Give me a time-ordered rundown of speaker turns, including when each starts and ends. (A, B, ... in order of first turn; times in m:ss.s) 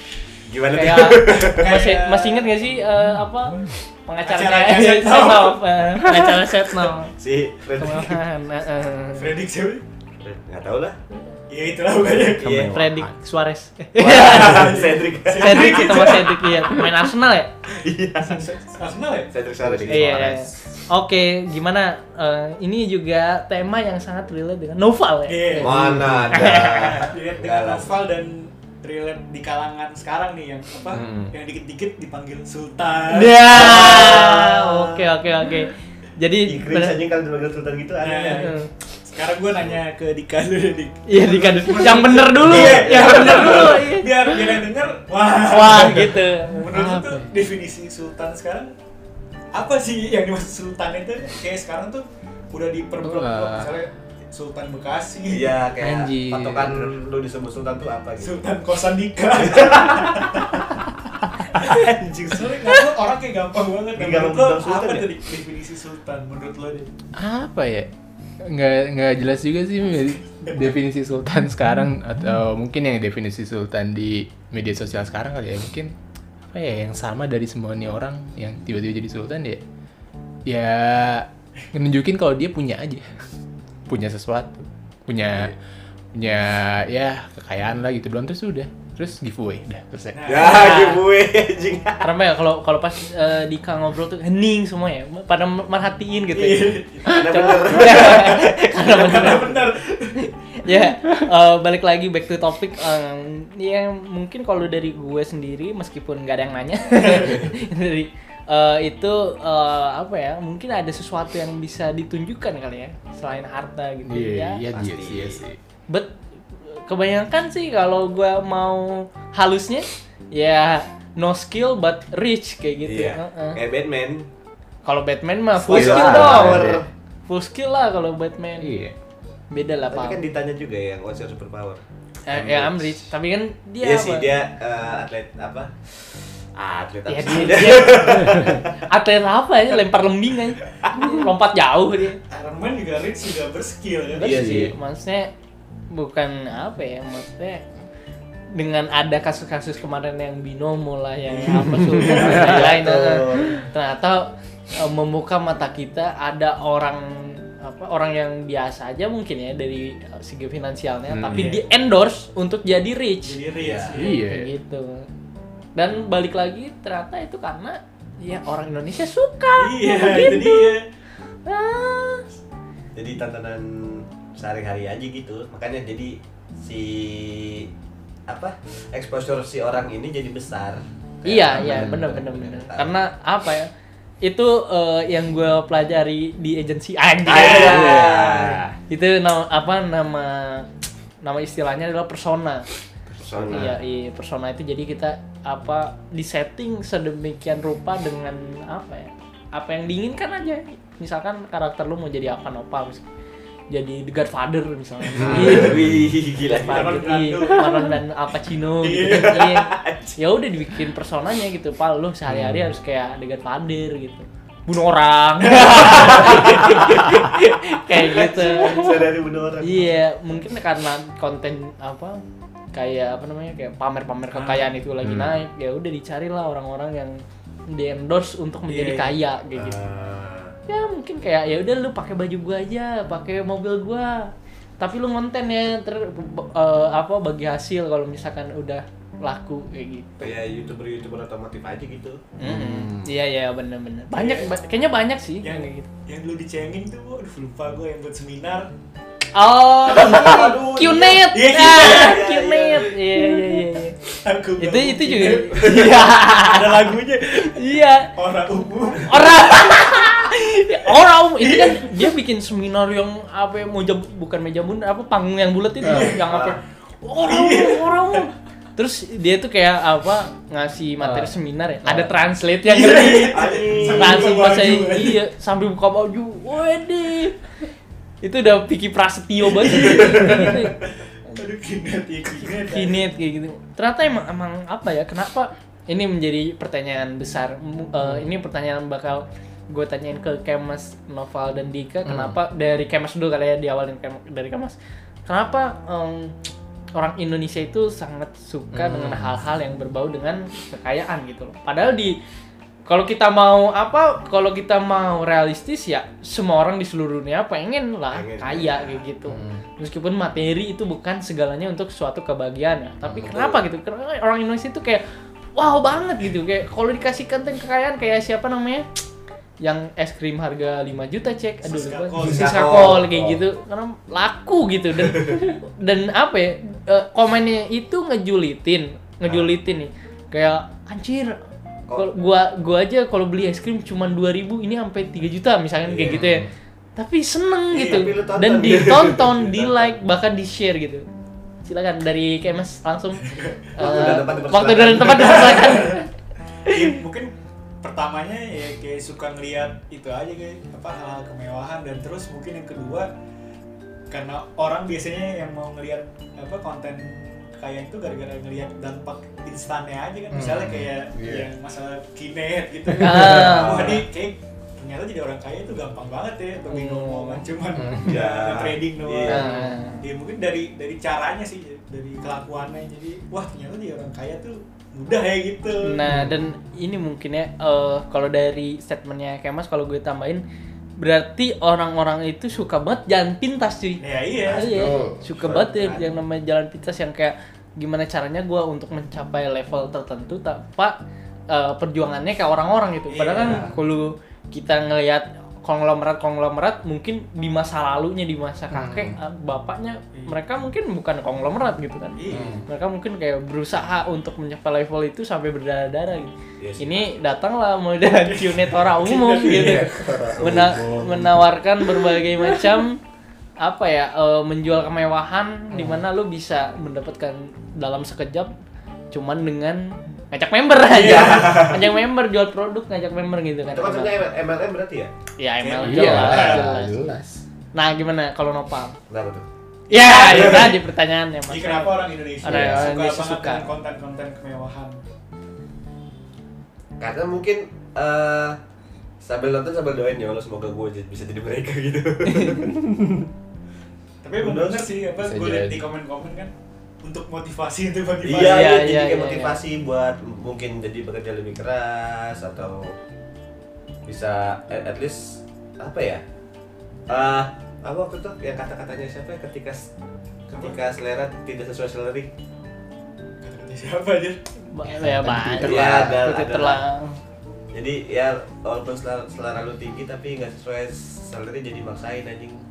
0:00.5-0:01.8 A
0:00.7-0:07.1 B
0:01.4-0:02.7 C
0:04.2-0:05.6 C
0:07.2-0:08.2 A
0:07.8-0:09.3 B
0:09.1-0:09.8 C
0:10.2-0:11.0 A
0:11.5-0:12.5 C
0:12.0-0:12.8 A
0:12.4-0:13.1 D
0:12.6-0:14.8 B
0:14.0-0:16.1 A
0:14.2-0:16.7 C
0:15.4-0:17.5 B
0:17.8-0:18.4 A
0:18.2-0:19.3 C
0:19.3-0:20.5 A
0:19.6-0:20.5 D
0:19.9-0:27.1 B
0:25.3-0:34.1 C
0:25.6-0:27.9 A
0:30.9-0:31.3 D
0:33.1-0:37.0 B
0:33.5-0:35.0 A
0:36.5-0:38.5 A
0:38.0-0:38.5 C
0:38.3-0:38.7 B
0:39.1-0:48.7 C
0:41.1-0:44.4 B
0:42.5-0:43.6 A
0:45.4-0:46.6 B
0:46.7-0:47.3 D
0:49.5-0:55.6 C
0:53.0-0:53.7 D
0:55.3-0:58.4 A
0:55.8-0:56.9 D
0:58.2-1:00.7 C
0:59.4-1:00.1 A
1:01.5-1:06.9 C
1:03.9-1:05.1 A
1:07.2-1:07.9 D
1:08.4-1:15.9 D
1:16.5-1:19.6 D
1:20.5-1:23.0 D
1:23.9-1:25.5 D
1:26.1-1:30.2 D
1:30.1-1:30.7 C
1:30.3-1:32.1 A
1:30.4-1:31.0 B
1:32.0-1:39.6 B
1:36.3-1:37.2 C
1:37.0-1:38.7 A
1:37.9-1:38.2 C
1:38.8-1:40.3 C
1:40.2-1:54.6 B
1:54.0-1:55.6 D
1:54.7-1:55.4 A
1:55.9-2:03.6 B
2:02.8-2:04.3 A
2:04.8-2:06.6 B
2:05.6-2:06.9 A
2:05.7-2:06.8 D
2:07.3-2:08.7 B
2:08.6-2:08.9 D
2:09.5-2:10.2 B
2:09.9-2:13.1 A
2:12.2-2:14.3 B
2:13.8-2:15.7 A
2:16.6-2:18.7 A
2:17.1-2:18.3 B
2:18.3-2:18.6 D
2:18.9-2:22.2 B
2:22.3-2:24.3 C
2:24.2-2:24.7 A
2:24.2-2:25.3 B
2:24.3-2:24.7 D
2:25.9-2:27.6 B
2:28.5-2:43.4 B
2:31.3-2:32.6 C
2:32.2-2:33.6 A
2:41.1-2:41.6 D
2:41.3-2:41.6 C
2:43.2-2:44.1 C
2:43.6-2:44.0 A
2:43.9-2:44.5 D
2:43.9-2:45.1 B
2:45.8-2:50.7 B
2:49.6-2:50.8 C
2:51.4-2:52.3 B
2:52.9-2:57.7 A
2:58.3-3:03.0 A
3:01.2-3:03.7 B
3:01.6-3:02.1 D
3:04.2-3:07.9 B
3:07.3-3:08.6 A
3:07.3-3:08.8 D
3:08.9-3:10.7 B
3:11.2-3:12.6 B
3:13.1-3:13.7 D
3:13.2-3:13.7 A
3:13.5-3:23.0 B
3:23.7-3:25.8 B
3:25.1-3:25.7 C
3:25.2-3:25.8 D
3:25.2-3:27.0 A
3:26.5-3:29.6 B
3:26.5-3:28.0 C
3:28.8-3:30.2 C
3:29.1-3:29.6 A
3:30.2-3:39.0 B
3:32.3-3:32.7 D
3:35.4-3:37.0 C
3:36.2-3:36.7 A
3:38.0-3:39.8 A
3:39.6-3:42.2 B
3:42.7-3:47.2 B
3:44.3-3:44.7 C
3:45.0-3:45.3 D
3:47.7-3:49.8 B
3:48.7-3:49.2 C
3:49.5-3:50.5 A
3:50.7-3:54.3 B
3:54.8-4:00.3 B
4:00.2-4:02.2 A
4:02.4-4:05.9 B
4:02.4-4:03.1 D
4:04.1-4:04.5 C
4:05.4-4:08.7 C
4:09.3-4:14.0 B
4:09.9-4:12.9 A
4:10.0-4:10.4 C
4:11.3-4:12.2 C
4:13.2-4:13.6 C
4:14.1-4:19.8 C
4:14.6-4:16.9 B
4:15.6-4:16.0 A
4:17.4-4:18.1 B
4:19.0-4:37.4 B
4:21.4-4:22.1 C
4:25.8-4:26.2 C
4:26.2-4:26.6 A
4:27.2-4:28.3 C
4:31.0-4:31.3 D
4:31.8-4:32.1 D
4:32.6-4:35.2 C
4:33.3-4:34.4 A
4:38.2-4:40.7 B
4:39.5-4:43.1 C
4:42.7-4:56.3 B
4:52.0-4:52.4 D
4:56.9-5:02.2 B
4:58.7-4:59.3 D
5:02.9-5:15.0 B
5:08.1-5:09.0 A
5:09.3-5:09.6 D
5:13.0-5:13.3 D
5:13.3-5:13.6 A
5:15.5-5:18.8 B
5:19.6-5:31.3 B
5:21.6-5:22.9 C
5:22.2-5:23.4 A
5:29.2-5:29.5 A
5:31.9-5:41.0 B
5:35.8-5:36.2 A
5:36.1-5:36.5 D
5:37.7-5:40.0 A
5:41.6-5:46.1 B
5:43.2-5:44.1 C
5:43.8-5:45.8 A
5:45.2-5:45.9 C
5:46.7-5:53.1 C
5:54.1-6:16.0 C
6:00.3-6:00.9 D
6:01.1-6:01.5 A
6:03.0-6:04.0 B
6:03.2-6:04.0 A
6:06.7-6:07.4 B
6:08.0-6:09.6 A
6:09.3-6:10.0 B
6:15.8-6:20.4 B
6:16.0-6:16.3 D
6:21.0-6:31.0 B
6:24.0-6:24.7 C
6:24.5-6:26.0 A
6:24.7-6:25.2 D
6:31.5-6:53.0 B
6:33.1-6:33.7 C
6:33.3-6:33.7 A
6:38.7-6:39.2 D
6:42.2-6:42.6 C
6:42.3-6:42.6 D
6:46.6-6:47.1 A
6:48.2-6:50.3 C
6:49.7-6:51.3 D
6:50.3-6:50.8 A
6:53.6-6:58.5 B
6:55.7-6:56.0 D
6:59.1-7:04.2 B
7:00.9-7:01.8 C
7:01.0-7:01.4 A
7:03.7-7:05.1 A
7:05.4-7:07.2 B
7:05.6-7:06.8 C
7:05.8-7:07.4 D
7:07.7-7:09.0 B
7:09.1-7:09.4 A
7:09.9-7:10.8 C
7:09.9-7:13.7 B
7:10.1-7:10.7 A
7:11.5-7:15.0 C
7:12.5-7:12.9 D
7:17.0-7:18.6 A
7:19.2-7:22.7 A
7:22.3-7:23.2 B
7:24.2-7:28.7 C
7:24.4-7:24.9 A
7:25.2-7:25.8 D
7:28.2-7:33.0 A
7:28.4-7:29.6 B
7:34.0-7:36.2 A
7:37.1-7:39.9 A
7:40.5-7:40.8 C
7:40.5-7:42.3 A
7:43.4-7:44.4 C
7:44.6-7:47.2 B
7:44.9-7:46.2 D
7:45.6-7:46.8 A
7:47.7-7:52.6 A